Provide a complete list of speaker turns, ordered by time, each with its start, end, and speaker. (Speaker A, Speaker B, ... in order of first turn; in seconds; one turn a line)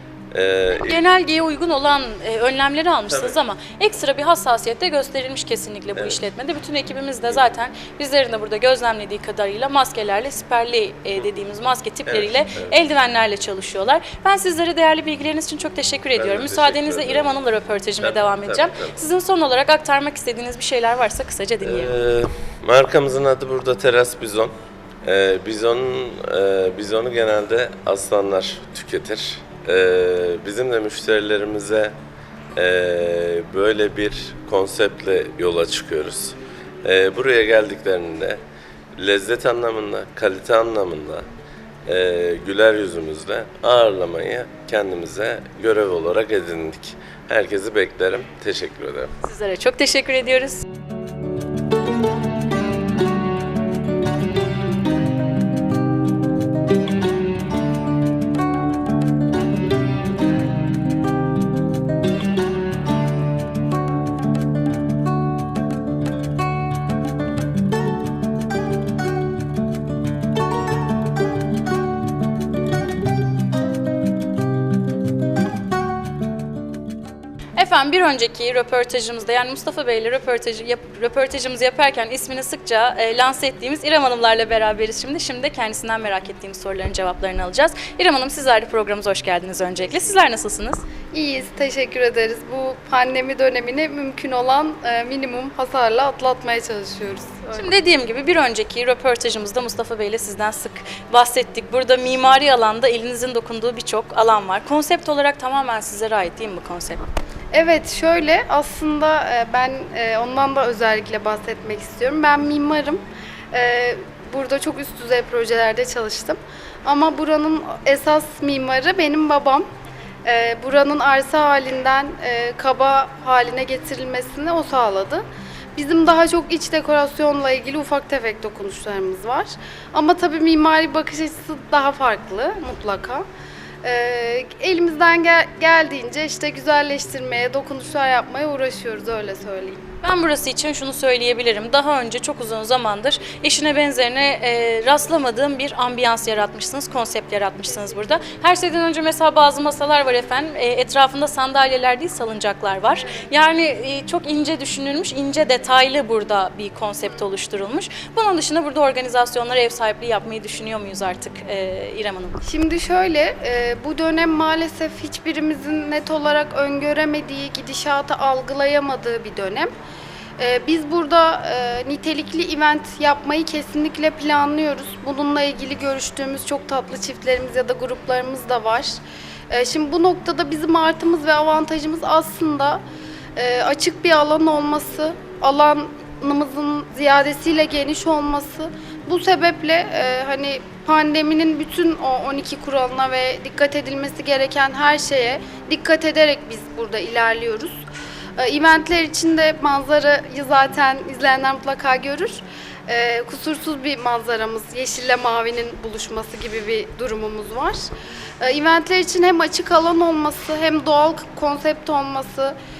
Speaker A: 0.3-1.0
Speaker B: 0.7-21.9
Speaker A: 3.1-3.4
Speaker A: 6.0-6.2
Speaker A: 12.1-12.8
Speaker A: 16.1-17.4
Speaker A: 18.0-19.0
Speaker A: 21.6-24.5
Speaker A: 25.0-31.9
Speaker A: 32.5-38.4
Speaker A: 39.0-41.2
Speaker A: 41.9-49.1
Speaker B: 49.2-50.6
Speaker B: 77.5-90.8
Speaker C: 91.1-97.7
Speaker B: 97.5-107.0
Speaker C: 107.5-119.7
Speaker C: 120.2-125.2
Speaker C: 125.8-133.2
Speaker C: 133.8-139.8
Speaker B: 140.0-162.4
Speaker C: 162.4-169.7
Speaker C: 170.4-178.9
Speaker C: 179.5-182.8
Speaker C: 183.3-197.8
Speaker C: 198.4-207.8
Speaker C: 208.4-212.6